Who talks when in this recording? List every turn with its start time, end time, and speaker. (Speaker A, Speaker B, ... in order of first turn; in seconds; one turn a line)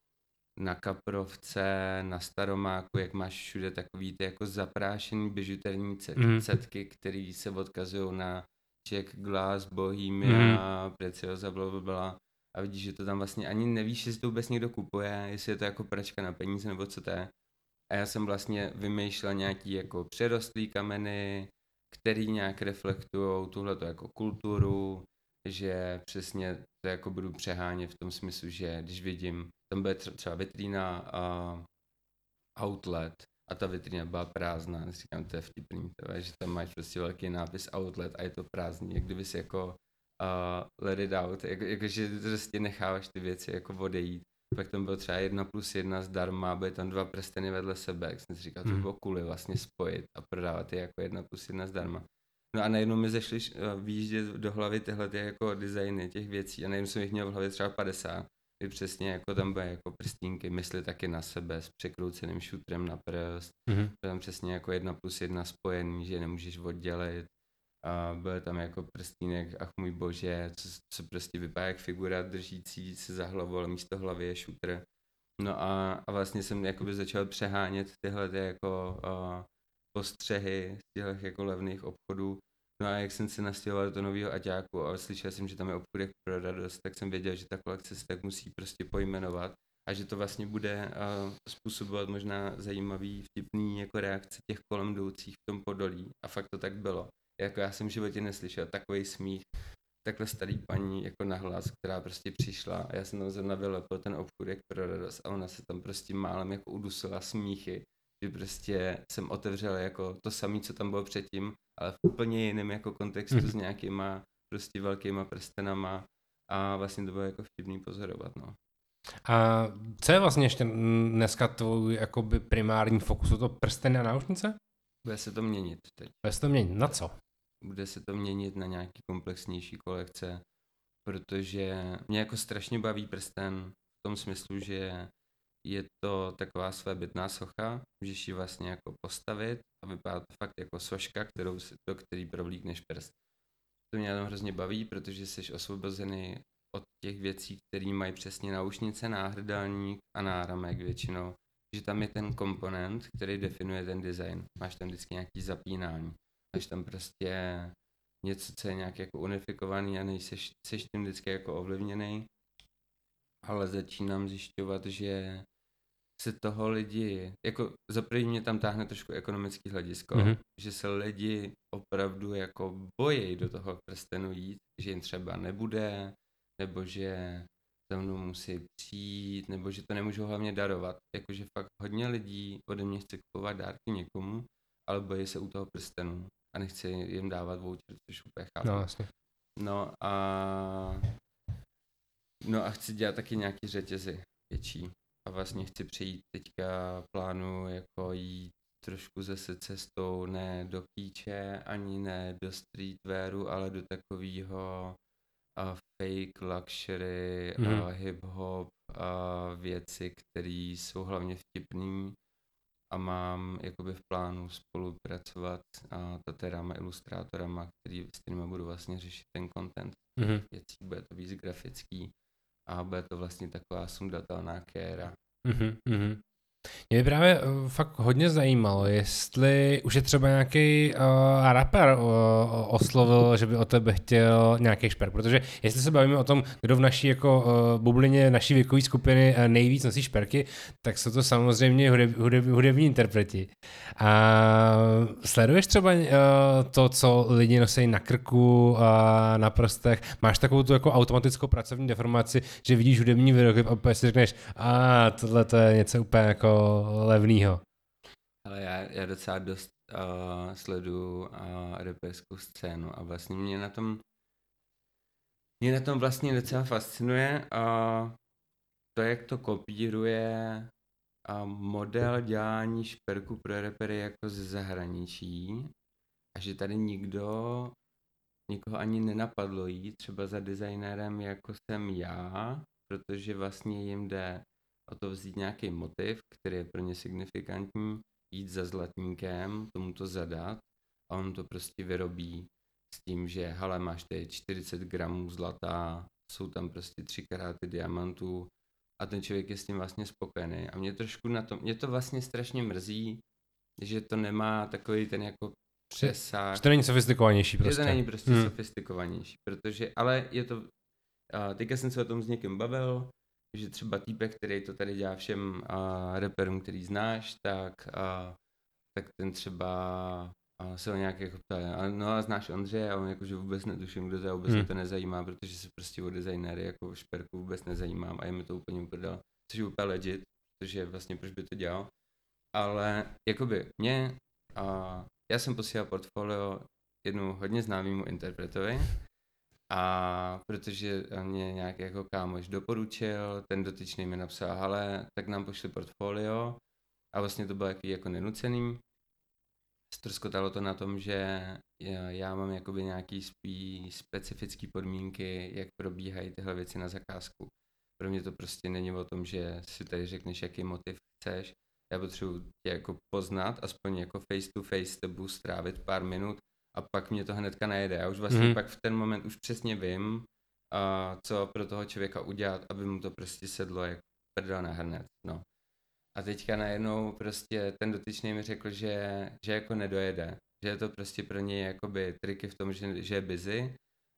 Speaker A: 0.6-17.3
Speaker B: 6.2-6.4
Speaker B: 10.2-10.6
Speaker A: 17.9-31.6
Speaker A: 32.5-67.3
Speaker B: 63.7-63.9
Speaker A: 67.8-74.8
Speaker A: 75.4-99.5
Speaker A: 100.0-118.6
Speaker B: 119.2-124.6
Speaker A: 125.0-126.2
Speaker B: 126.2-127.1
Speaker A: 127.6-130.4
Speaker A: 131.0-135.1
Speaker A: 135.6-143.1
Speaker A: 143.9-162.3
Speaker A: 163.4-165.4
Speaker A: 166.2-188.9
Speaker B: 188.6-189.1
Speaker A: 189.6-191.1
Speaker A: 192.4-205.0
Speaker A: 205.6-212.2
Speaker B: 207.6-207.8
Speaker A: 212.9-222.1
Speaker B: 220.2-220.4
Speaker A: 222.7-225.1
Speaker B: 225.4-226.2
Speaker B: 226.9-257.6
Speaker A: 258.4-264.0
Speaker A: 265.6-268.2
Speaker A: 268.9-270.7
Speaker A: 271.2-275.7
Speaker A: 276.3-277.7
Speaker A: 278.5-303.2
Speaker A: 303.8-306.7
Speaker B: 306.0-308.5
Speaker A: 307.6-310.7
Speaker A: 311.3-318.4
Speaker A: 318.9-331.9
Speaker A: 332.5-338.9
Speaker A: 339.7-346.6
Speaker A: 347.1-348.8
Speaker A: 349.9-375.4
Speaker B: 368.3-368.6
Speaker A: 376.1-383.8